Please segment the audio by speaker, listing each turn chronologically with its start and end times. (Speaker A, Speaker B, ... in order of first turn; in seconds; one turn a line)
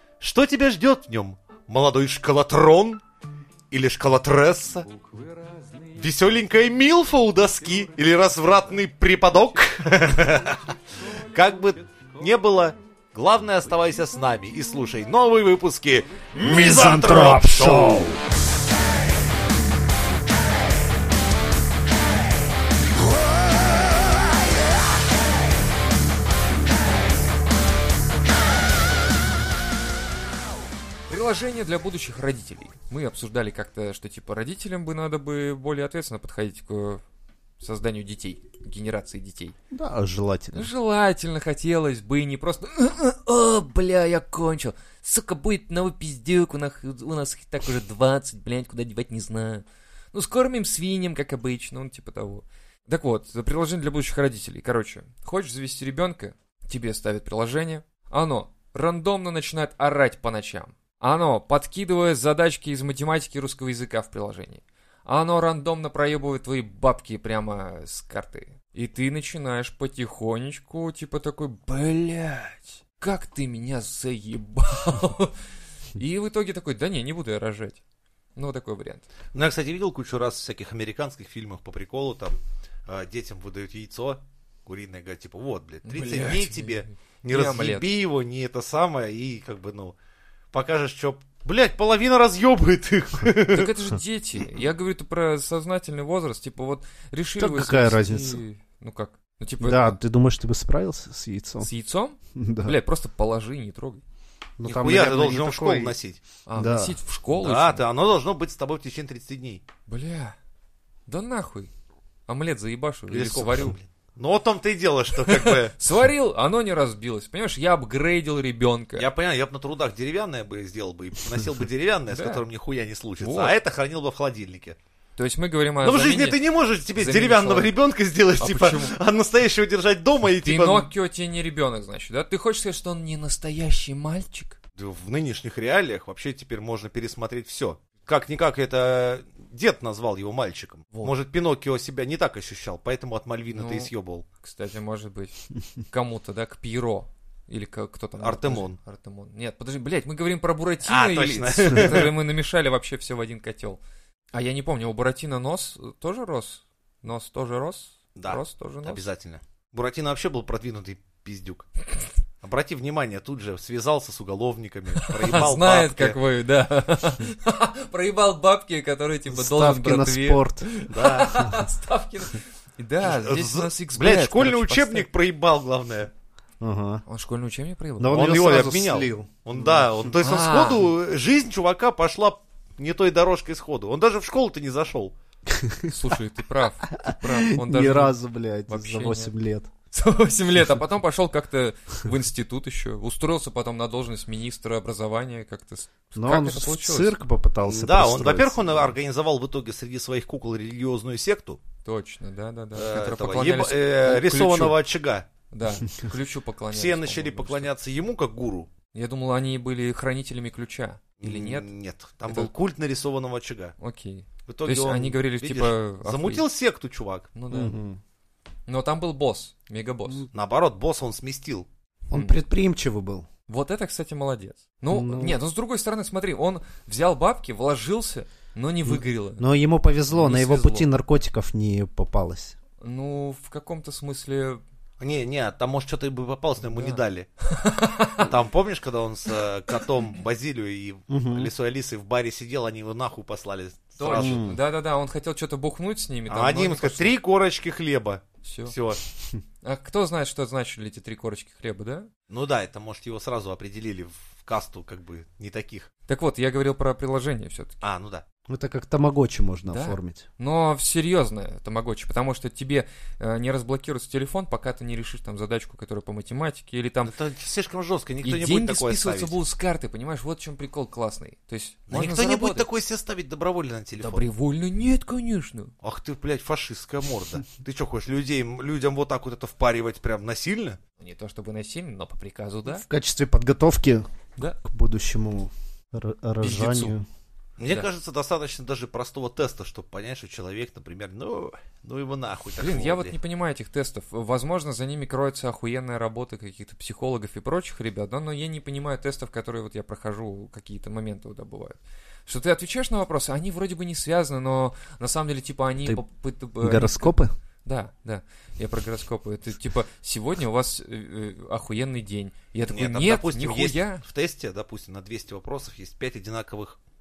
Speaker A: 0.2-3.0
Speaker A: 3.7-4.9
Speaker A: 5.9-10.7
Speaker A: 11.3-18.1
Speaker B: 16.4-18.2
Speaker C: 31.1-37.0
Speaker C: 37.6-39.6
Speaker B: 39.7-40.7
Speaker C: 40.5-75.4
Speaker C: 76.0-77.8
Speaker C: 78.4-79.0
Speaker A: 79.3-82.3
Speaker A: 82.9-90.0
Speaker C: 85.8-87.9
Speaker A: 90.5-93.7
Speaker C: 93.5-100.0
Speaker B: 97.4-98.4
Speaker B: 99.6-101.7
Speaker C: 101.6-104.0
Speaker B: 102.3-102.8
Speaker B: 104.6-106.0
Speaker A: 104.6-106.2
Speaker C: 106.5-107.8
Speaker B: 106.6-107.0
Speaker A: 107.3-109.6
Speaker C: 109.9-110.4
Speaker C: 111.1-111.7
Speaker C: 112.3-113.8
Speaker A: 113.1-115.7
Speaker C: 115.2-119.1
Speaker A: 119.0-124.8
Speaker C: 122.1-122.4
Speaker C: 123.2-123.5
Speaker C: 125.2-126.4
Speaker A: 125.8-130.9
Speaker C: 127.0-127.7
Speaker C: 128.4-128.9
Speaker C: 130.4-134.6
Speaker A: 134.8-144.2
Speaker C: 143.5-143.9
Speaker C: 144.4-153.8
Speaker A: 148.2-148.8
Speaker A: 150.8-152.1
Speaker C: 154.3-159.0
Speaker A: 158.2-161.7
Speaker A: 162.4-166.2
Speaker C: 164.9-175.1
Speaker B: 169.3-171.7
Speaker A: 171.0-171.3
Speaker A: 173.0-176.1
Speaker B: 176.6-177.0
Speaker C: 177.1-178.3
Speaker B: 178.0-179.4
Speaker A: 178.1-185.2
Speaker C: 179.6-180.9
Speaker B: 185.5-185.9
Speaker C: 185.9-188.2
Speaker B: 187.0-189.7
Speaker C: 188.7-189.3
Speaker C: 189.9-197.2
Speaker B: 196.2-198.8
Speaker A: 197.7-201.6
Speaker C: 201.8-204.8
Speaker A: 202.8-205.3
Speaker C: 205.5-207.7
Speaker A: 206.7-208.7
Speaker C: 208.9-211.7
Speaker A: 211.2-213.8
Speaker C: 213.8-216.4
Speaker A: 214.5-217.3
Speaker C: 217.3-217.8
Speaker B: 217.5-218.0
Speaker C: 218.7-220.3
Speaker A: 220.3-221.7
Speaker B: 222.1-223.3
Speaker C: 222.1-222.4
Speaker C: 223.5-229.5
Speaker B: 224.9-225.4
Speaker B: 228.9-232.6
Speaker C: 230.1-230.9
Speaker C: 232.8-234.6
Speaker A: 235.0-237.3
Speaker C: 236.7-238.3
Speaker A: 238.1-244.6
Speaker B: 241.1-241.5
Speaker C: 244.0-247.2
Speaker B: 244.1-244.6
Speaker A: 246.3-249.0
Speaker C: 248.4-248.8
Speaker C: 249.6-252.1
Speaker A: 252.3-255.9
Speaker C: 256.1-257.8
Speaker A: 257.8-258.2
Speaker B: 258.5-260.3
Speaker C: 259.7-267.1
Speaker A: 267.1-269.4
Speaker C: 268.2-272.7
Speaker A: 271.9-274.3
Speaker C: 274.0-275.7
Speaker A: 275.8-280.8
Speaker C: 281.0-282.9
Speaker B: 282.7-284.1
Speaker B: 284.6-287.1
Speaker C: 286.4-286.9
Speaker A: 287.6-293.1
Speaker C: 292.6-314.0
Speaker B: 306.6-307.3
Speaker A: 312.7-316.8